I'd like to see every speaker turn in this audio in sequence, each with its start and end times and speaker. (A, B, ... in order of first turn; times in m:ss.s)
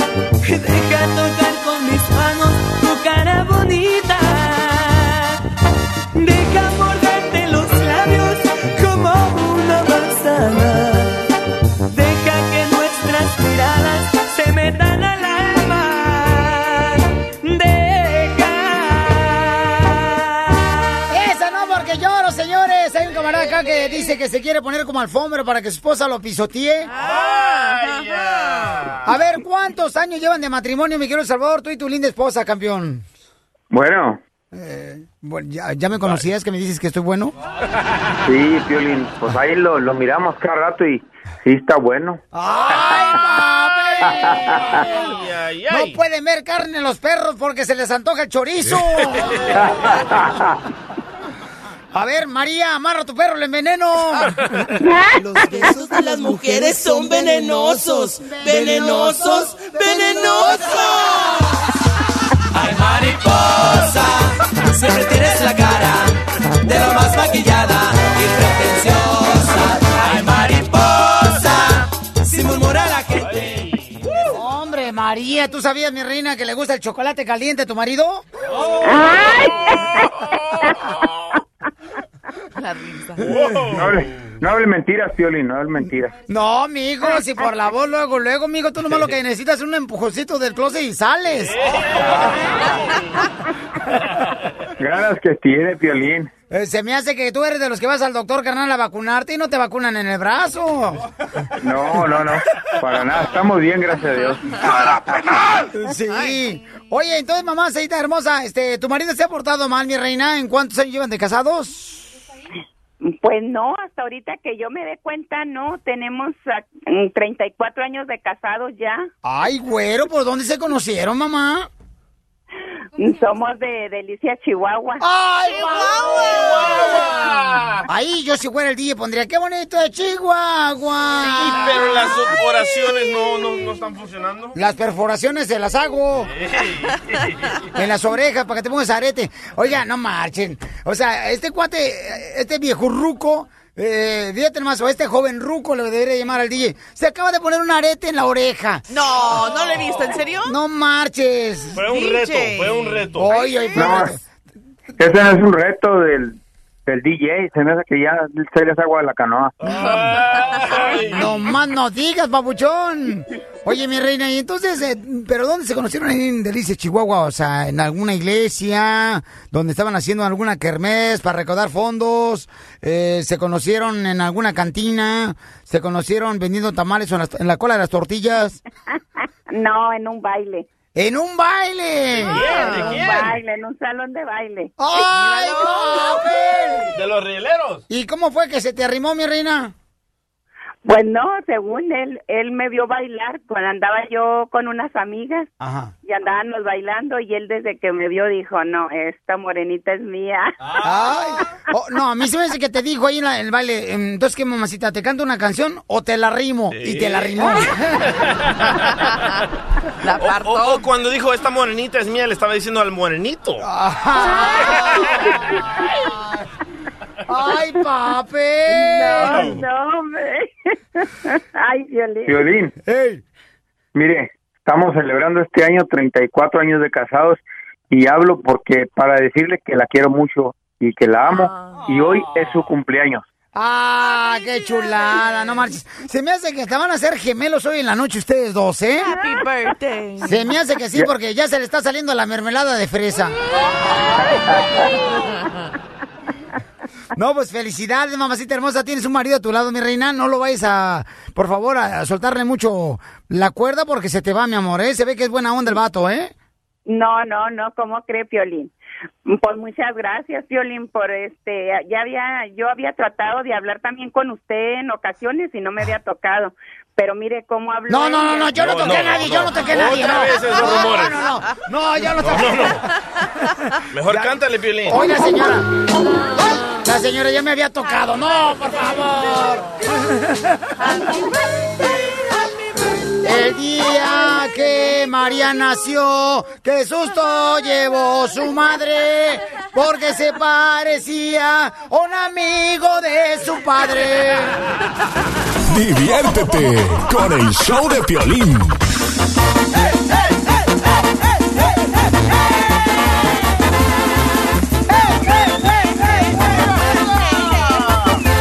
0:00.8-0:04.0 A
0:12.7-0:15.1 A
0:17.7-0:18.2 A
0:21.1-0:26.9 B
0:26.9-0:28.9 C
0:27.0-0:29.1 D
0:29.1-0:33.1 B
0:33.7-0:34.2 E
0:34.5-0:37.3 B
0:38.3-0:42.2 E
0:42.3-0:44.8 B
0:42.6-0:46.0 D
0:45.7-0:49.6 B
0:48.7-0:49.6 D
0:51.9-0:54.3 B
0:54.2-0:54.8 D
0:54.8-0:55.1 F
0:55.1-0:56.8 B
0:55.9-1:00.8 G
0:58.2-0:59.1 B
1:02.6-1:13.4 G
1:13.2-1:14.1 D
1:14.3-1:18.3 B
1:18.7-1:21.3 D
1:18.8-1:20.1 F
1:22.6-1:23.2 C
1:23.2-1:24.3 D
1:23.2-1:23.8 B
1:23.7-1:26.2 E
1:26.3-1:31.6 B
1:31.3-1:33.1 D
1:34.8-1:36.3 E
1:36.5-1:41.0 B
1:41.6-1:44.9 E
1:45.7-1:52.0 B
1:53.0-1:59.1 F
1:59.2-2:01.7 B
2:03.0-2:05.0 F
2:05.0-2:07.2 B
2:05.6-2:06.7 C
2:06.4-2:07.8 D
2:07.9-2:11.9 B
2:11.2-2:14.6 D
2:14.6-2:16.3 B
2:16.3-2:17.5 D
2:17.8-2:28.8 B
2:28.9-2:30.6 C
2:30.4-2:31.8 B
2:31.7-2:33.3 D
2:31.8-2:33.9 C
2:33.1-2:34.2 B
2:33.8-2:34.1 E
2:35.0-2:39.6 E
2:39.6-2:41.4 D
2:39.7-2:40.0 B
2:40.5-2:41.0 C
2:41.1-2:58.6 B
2:59.5-3:00.7 F
3:01.0-3:02.7 B
3:02.2-3:03.4 D
3:02.3-3:04.7 F
3:02.4-3:02.9 C
3:04.8-3:07.0 B
3:05.1-3:06.2 C
3:06.9-3:07.8 D
3:07.9-3:09.7 B
3:10.8-3:15.5 F
3:15.6-3:15.9 B
3:16.0-3:20.5 F
3:20.7-3:21.1 D
3:20.8-3:27.8 B
3:26.7-3:29.1 D
3:30.0-3:30.9 C
3:30.2-3:33.6 D
3:33.6-3:35.0 B
3:34.7-3:35.3 D
3:37.3-3:39.6 B
3:38.7-3:40.5 F
3:39.1-3:39.5 D
3:41.0-3:42.5 F
3:42.3-3:42.7 E
3:42.8-3:43.2 B
3:44.0-3:53.2 E
3:51.3-3:51.8 C
3:53.5-3:59.1 B
3:59.1-4:00.4 C
4:00.2-4:03.4 B
4:07.2-4:16.3 B
4:16.9-4:18.7 F
4:19.3-4:28.6 F
4:27.9-4:32.8 B
4:28.5-4:31.2 D
4:32.2-4:32.8 D
4:33.9-4:35.0 D
4:34.9-4:35.7 B
4:36.7-4:39.9 B
4:40.8-4:41.1 C
4:43.2-4:54.6 B
4:55.7-4:58.8 H
5:06.1-5:07.9 C